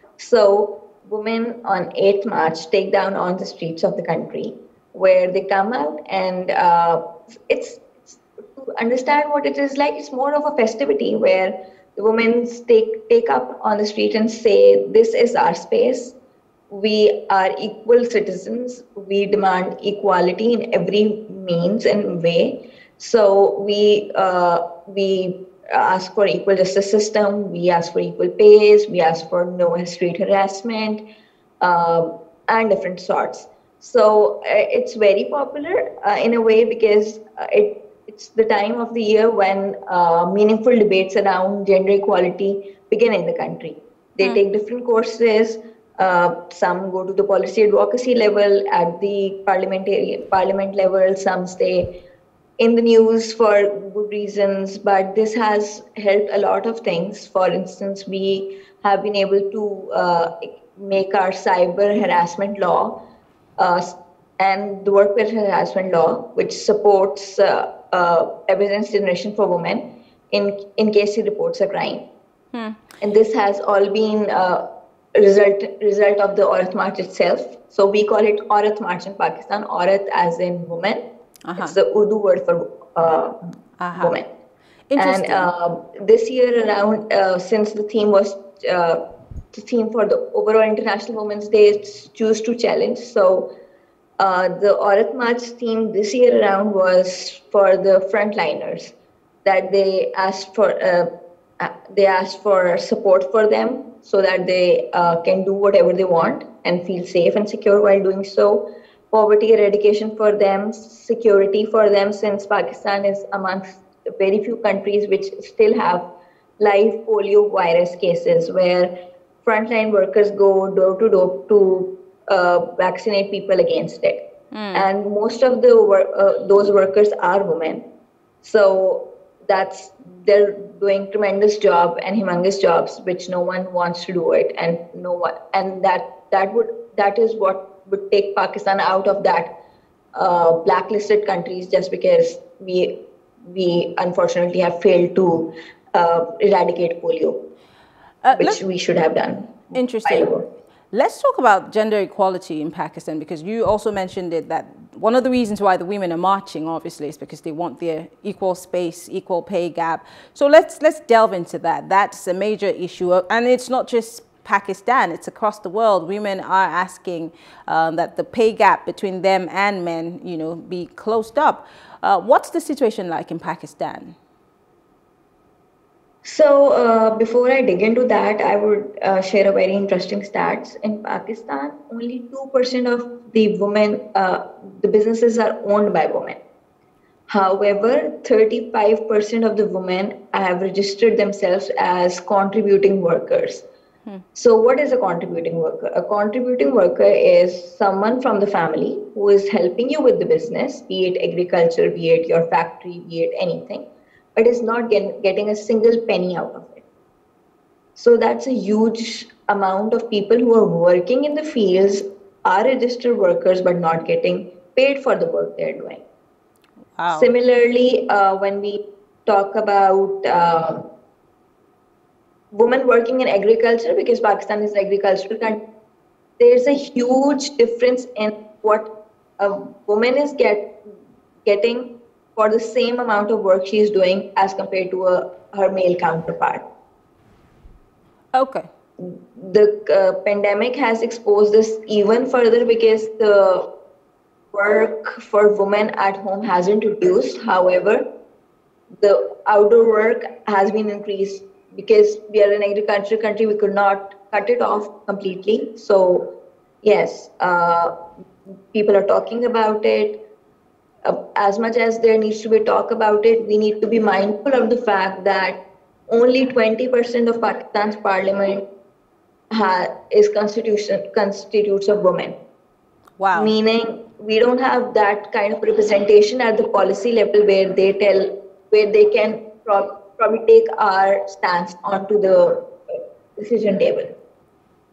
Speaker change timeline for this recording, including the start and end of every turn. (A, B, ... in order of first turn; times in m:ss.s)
0:00.2-0:16.2 A
0:16.7-0:31.0 A
0:31.6-0:51.9 A
0:52.6-1:03.0 A
1:03.6-1:12.0 A
1:12.5-1:12.8 B
1:13.0-1:14.6 A
1:15.2-1:21.0 A
1:21.5-1:21.8 B
1:21.6-1:23.4 A
1:23.8-1:24.2 B
1:23.9-1:24.3 A
1:24.9-1:25.5 B
1:25.0-1:29.0 A
1:29.5-1:33.5 A
1:34.2-1:56.1 A
1:56.6-1:58.9 A
1:59.4-2:04.2 A
2:04.5-2:04.9 B
2:04.7-2:07.9 A
2:08.4-2:19.5 A
2:20.2-2:27.4 A
2:28.2-2:28.6 B
2:28.3-2:30.4 A
2:29.7-2:30.3 B
2:30.9-2:54.2 B
2:56.2-3:06.4 A
3:07.3-3:13.6 A
3:14.4-3:26.8 A
3:28.0-3:36.0 A
3:37.0-3:37.3 B
3:37.1-3:40.9 A
3:42.5-3:45.6 A
3:46.4-3:50.7 A
3:51.4-3:56.6 A
3:58.3-3:58.7 B
3:59.0-4:03.7 A
4:04.5-4:08.0 A
4:09.0-4:16.3 A
4:16.8-4:17.9 A
4:18.5-4:20.2 A
4:21.0-4:28.6 A
4:29.5-4:32.4 A
4:33.2-4:33.5 B
4:33.3-4:44.1 A